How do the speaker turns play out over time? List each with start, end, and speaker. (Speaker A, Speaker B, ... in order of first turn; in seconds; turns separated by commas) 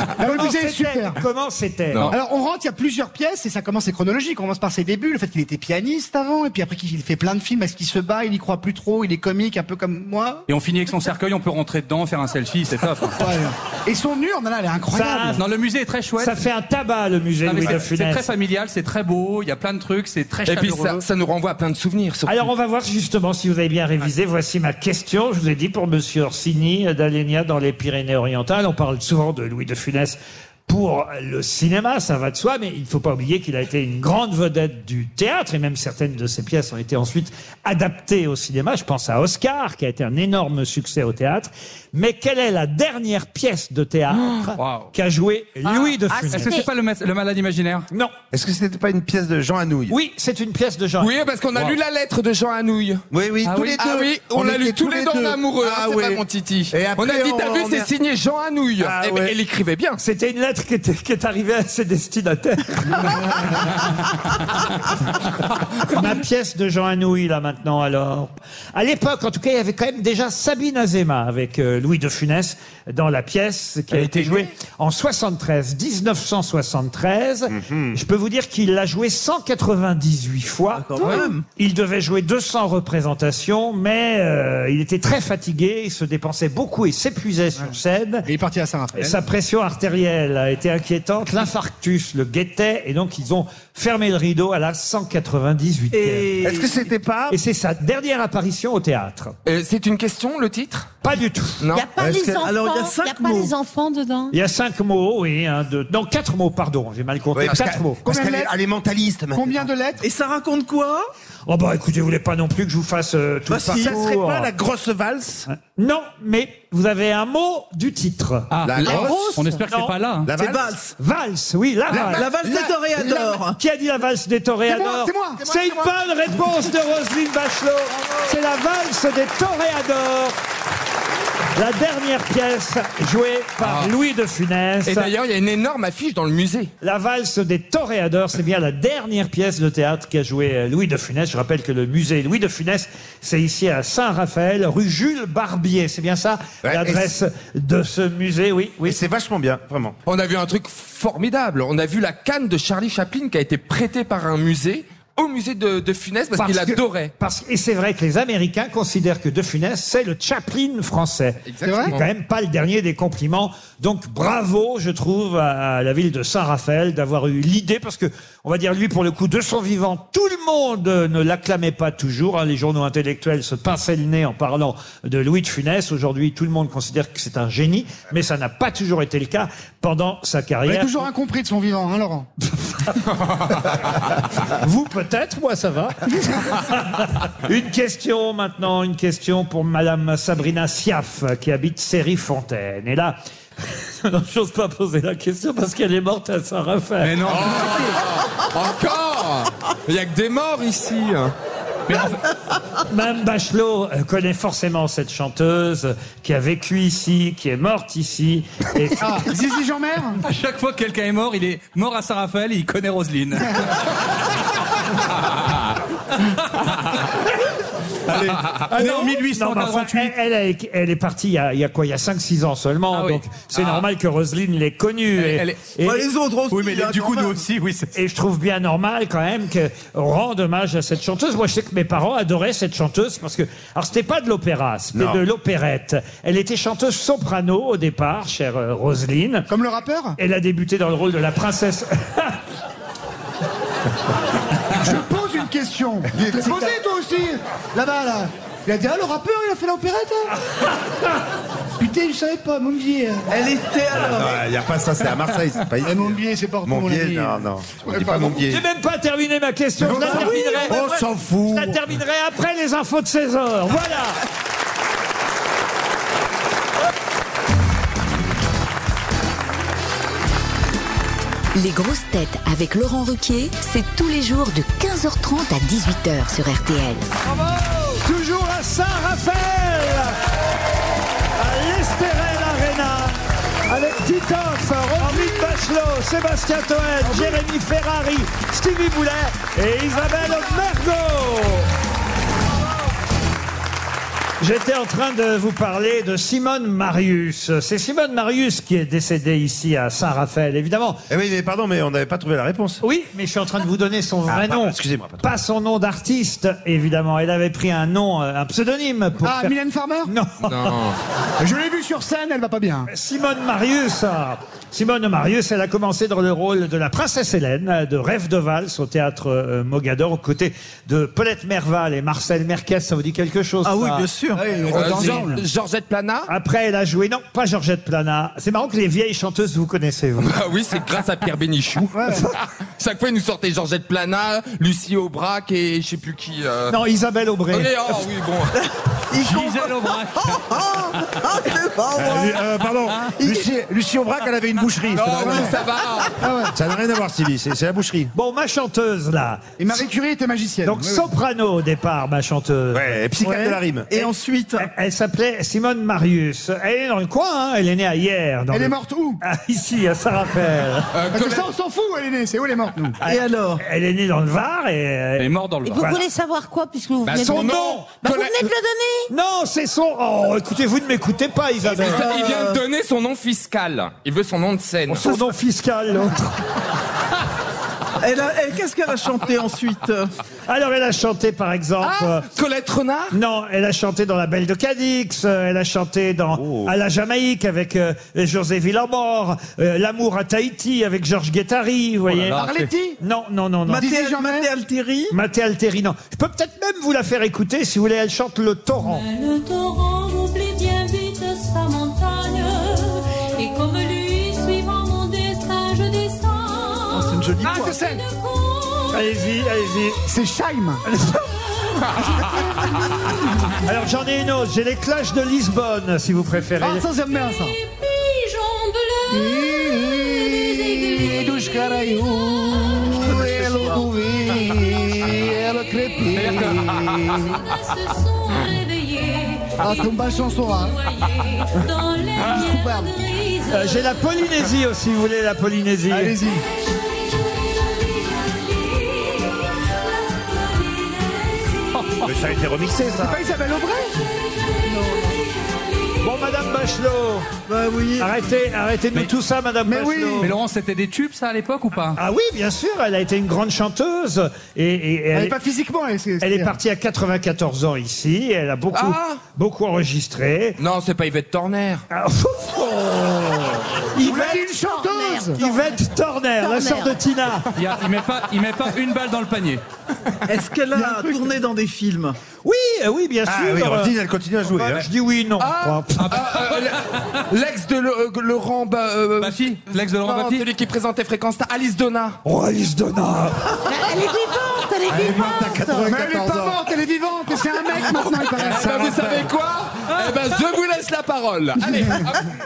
Speaker A: 0.2-1.2, Speaker B: 0.2-2.1, Speaker A: 2.0-10.4, Speaker C: 10.5-13.2, Speaker A: 13.2-15.4, Speaker B: 14.9-15.4, Speaker C: 15.4-16.4, Speaker B: 16.2-18.2, Speaker C: 17.4-21.0, Speaker D: 20.5-22.5, Speaker B: 22.3-46.6, Speaker C: 44.6-44.9, Speaker C: 45.6-47.9, Speaker B: 47.9-48.1, Speaker E: 48.3-50.0, Speaker B: 49.9-51.1, Speaker D: 51.0-53.0, Speaker E: 53.1-57.9, Speaker C: 53.4-53.8, Speaker D: 53.8-60.0, Speaker B: 58.8-59.3, Speaker B: 60.0-63.7, Speaker B: 65.8-88.3, Speaker E: 77.5-78.0, Speaker F: 80.7-81.4, Speaker A: 88.2-89.2, Speaker B: 88.9-96.4, Speaker F: 95.9-96.9, Speaker E: 96.4-97.4, Speaker B: 97.3-99.3, Speaker D: 99.4-100.9, Speaker B: 101.0-101.7, Speaker D: 101.6-101.9, Speaker G: 101.7-104.3, Speaker E: 102.0-102.5, Speaker F: 102.4-103.5, Speaker B: 104.3-108.0, Speaker E: 107.3-109.7, Speaker A: 108.0-108.5, Speaker A: 109.3-110.0, Speaker F: 110.0-111.1, Speaker B: 111.5-114.5, Speaker F: 113.5-114.0, Speaker E: 113.7-115.5, Speaker B: 115.5-119.9, Speaker C: 118.5-120.3, Speaker E: 118.6-119.3, Speaker D: 118.8-119.0, Speaker F: 118.9-119.4, Speaker E: 120.2-120.7, Speaker F: 120.3-120.9, Speaker B: 121.0-122.3, Speaker F: 121.9-123.6, Speaker A: 121.9-123.4, Speaker B: 123.5-130.3, Speaker A: 124.7-125.5, Speaker B: 131.6-135.1, Speaker D: 133.6-133.9, Speaker D: 134.8-136.7, Speaker B: 136.8-149.0, Speaker E: 146.6-147.1, Speaker E: 148.8-149.9, Speaker D: 150.1-157.1, Speaker B: 156.3-181.1, Speaker D: 161.4-162.1, Speaker A: 161.6-161.9, Speaker A: 180.7-182.3, Speaker B: 182.6-183.0, Speaker B: 184.4-197.2, Speaker C: 197.0-197.9, Speaker D: 197.2-201.3, Speaker C: 201.9-202.2, Speaker B: 202.8-209.3, Speaker A: 209.0-210.2, Speaker C: 210.2-213.7, Speaker C: 218.1-220.1, Speaker B: 218.7-226.1, Speaker C: 222.9-223.9, Speaker C: 225.1-225.8, Speaker F: 225.8-227.4, Speaker C: 226.5-227.9, Speaker B: 227.9-239.5, Speaker E: 234.9-235.2, Speaker A: 239.5-240.2, Speaker B: 240.2-242.4, Speaker A: 244.7-250.3, Speaker E: 246.1-246.8, Speaker A: 251.8-253.3, Speaker F: 253.3-254.4, Speaker E: 254.0-258.6, Speaker A: 255.8-258.4, Speaker B: 258.4-260.9, Speaker A: 259.9-260.5, Speaker F: 260.0-261.0, Speaker E: 260.0-261.8, Speaker B: 261.4-264.2, Speaker H: 271.5-277.1, Speaker B: 277.9-280.2, Speaker B: 281.4-291.7, Speaker A: 285.0-285.6, Speaker A: 287.0-287.4, Speaker B: 294.4-301.0, Speaker E: 301.1-302.8, Speaker B: 302.8-309.5, Speaker E: 304.3-305.2, Speaker A: 309.2-310.1, Speaker B: 310.1-310.8, Speaker D: 310.4-311.0, Speaker A: 311.4-312.9, Speaker B: 312.9-324.1, Speaker F: 323.6-325.3, Speaker A: 324.3-325.4, Speaker D: 324.7-326.3, Speaker B: 326.3-330.3, Speaker D: 330.2-331.9, Speaker A: 331.9-332.3, Speaker D: 332.8-336.8, Speaker B: 336.7-338.0, Speaker D: 337.5-338.5, Speaker F: 338.6-342.4, Speaker C: 339.1-341.1, Speaker E: 342.0-345.6, Speaker D: 344.9-346.2, Speaker A: 345.1-345.5, Speaker A: 346.2-346.5, Speaker E: 346.5-348.1, Speaker B: 348.1-349.8, Speaker A: 349.6-351.1, Speaker B: 350.6-353.5, Speaker E: 352.7-353.9, Speaker F: 353.9-354.7, Speaker B: 354.6-360.9, Speaker A: 358.5-359.2, Speaker D: 360.9-361.4, Speaker A: 361.1-363.0, Speaker F: 363.0-363.6, Speaker B: 363.0-365.3, Speaker C: 365.2-365.9, Speaker G: 365.6-369.1, Speaker D: 367.0-368.4, Speaker B: 367.2-367.9, Speaker B: 369.1-372.1, Speaker F: 371.6-372.6, Speaker D: 371.7-375.2, Speaker B: 374.9-376.4, Speaker F: 378.0-380.1, Speaker B: 380.5-382.2, Speaker D: 381.8-383.1, Speaker B: 383.1-392.5, Speaker E: 386.4-386.7, Speaker C: 392.1-392.7, Speaker A: 392.3-393.0, Speaker B: 393.0-393.9, Speaker F: 393.7-395.1, Speaker A: 393.8-394.5, Speaker B: 395.1-399.0, Speaker I: 398.8-409.2, Speaker F: 406.9-407.8, Speaker A: 407.1-408.0, Speaker B: 408.9-410.0, Speaker A: 410.1-410.8, Speaker B: 410.9-411.2, Speaker I: 411.8-412.4, Speaker B: 413.6-416.8, Speaker A: 416.6-417.6, Speaker I: 417.1-422.8, Speaker A: 419.1-427.4, Speaker F: 422.9-423.9, Speaker I: 424.4-425.2, Speaker I: 425.8-434.2, Speaker C: 426.1-426.8, Speaker A: 429.6-430.8, Speaker A: 432.2-432.9, Speaker B: 433.5-436.1, Speaker A: 435.9-436.4, Speaker I: 436.5-442.1, Speaker E: 442.0-443.2, Speaker A: 443.0-443.9, Speaker I: 444.3-446.5, Speaker F: 444.7-445.1, Speaker B: 446.0-447.3, Speaker F: 447.5-448.1, Speaker B: 448.0-450.3, Speaker A: 449.7-450.3, Speaker C: 450.2-452.0, Speaker B: 452.0-455.4, Speaker A: 455.1-456.6, Speaker B: 456.2-460.6, Speaker D: 458.7-459.2, Speaker D: 460.6-461.8, Speaker B: 461.9-464.4, Speaker A: 464.0-465.4, Speaker G: 464.3-465.8, Speaker B: 465.4-467.5, Speaker G: 466.4-467.0, Speaker C: 467.5-469.6, Speaker F: 470.2-472.1, Speaker A: 470.7-471.2, Speaker B: 472.4-473.9, Speaker E: 473.2-474.9, Speaker B: 474.4-476.2, Speaker D: 475.4-479.4, Speaker C: 476.1-476.7, Speaker C: 479.2-480.4, Speaker D: 480.0-482.2, Speaker B: 482.2-483.6, Speaker G: 483.6-485.9, Speaker E: 484.9-486.6, Speaker A: 485.8-489.3, Speaker D: 487.9-492.3